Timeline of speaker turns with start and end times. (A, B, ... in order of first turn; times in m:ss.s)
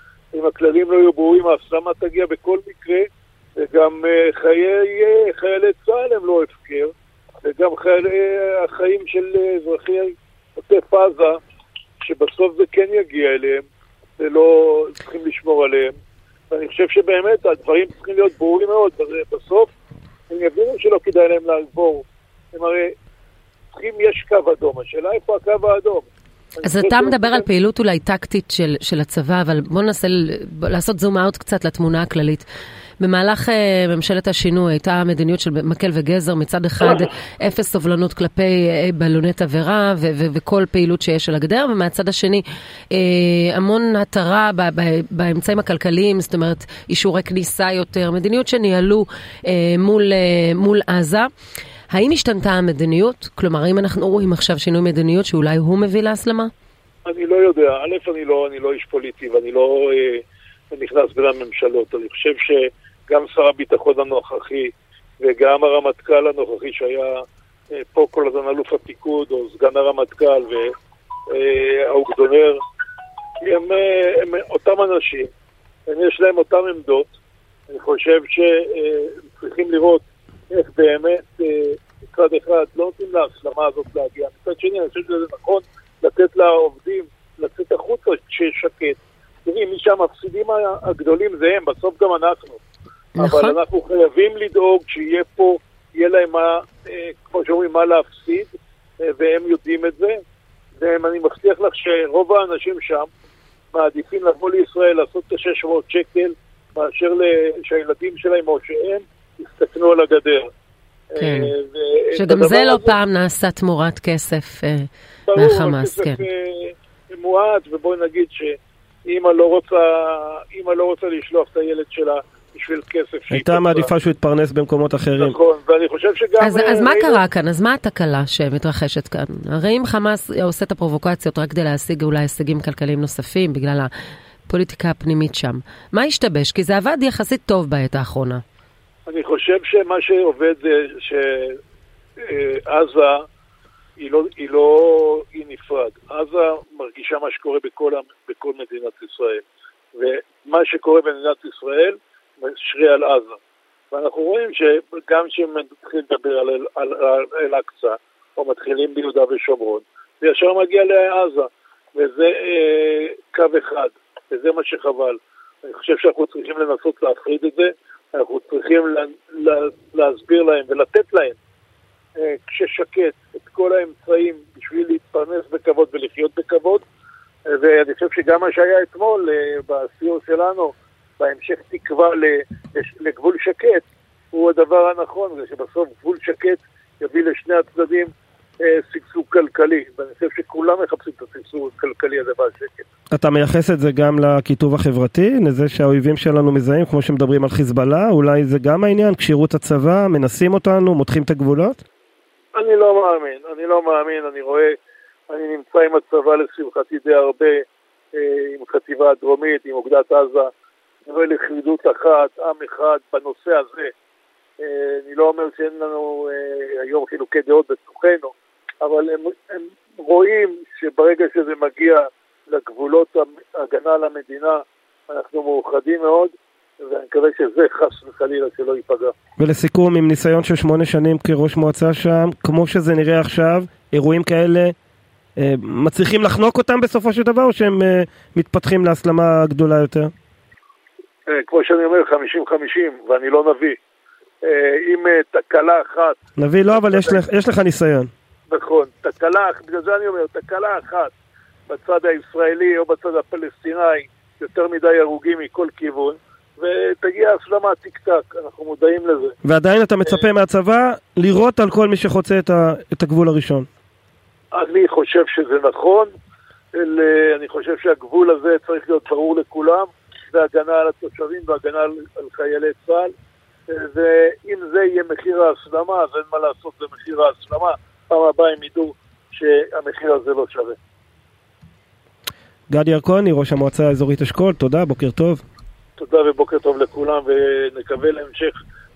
0:00.3-0:11.4 A
0:12.0-0:13.6 A
0:14.2-0:15.9 A
0:16.5-0:19.7 A
0:20.3-0:22.9 A
0:23.7-0:26.1 A
0:26.6-0:27.4 A
0:26.6-0:32.4 B
0:33.0-0:51.3 B
0:51.9-0:56.5 B
0:57.1-1:07.2 A
1:07.8-1:10.7 A
1:11.3-1:12.6 A
1:13.4-1:15.3 A
1:15.9-1:17.1 A
1:17.7-1:32.6 A
1:33.2-1:40.2 A
1:33.2-1:33.6 B
1:40.8-1:43.1 A
1:43.7-1:50.5 A
1:51.2-1:53.0 A
1:51.2-1:51.5 B
1:52.1-1:56.2 B
1:55.3-2:03.9 A
2:03.3-2:05.4 C
2:05.2-2:07.2 A
2:06.4-2:13.9 B
2:14.5-2:18.4 B
2:19.1-2:21.6 A
2:22.2-2:23.2 A
2:24.0-2:29.4 A
2:30.0-2:33.4 A
2:33.9-2:51.4 A
2:52.2-2:56.8 A
2:57.5-3:08.1 A
3:08.6-3:12.9 A
3:13.1-3:21.8 C
3:22.6-3:24.8 A
3:25.3-3:30.5 A
3:31.1-3:33.9 A
3:34.6-3:49.1 A
3:49.4-3:54.7 C
3:55.4-4:00.1 C
4:01.3-4:03.8 A
4:04.4-4:06.2 A
4:06.4-4:08.1 C
4:06.7-4:07.2 A
4:08.5-4:11.1 A
4:11.7-4:19.4 A
4:19.4-4:23.7 C
4:24.5-4:26.1 A
4:26.8-4:33.1 A
4:33.7-4:40.8 A
4:42.7-4:45.4 C
4:46.0-4:48.6 A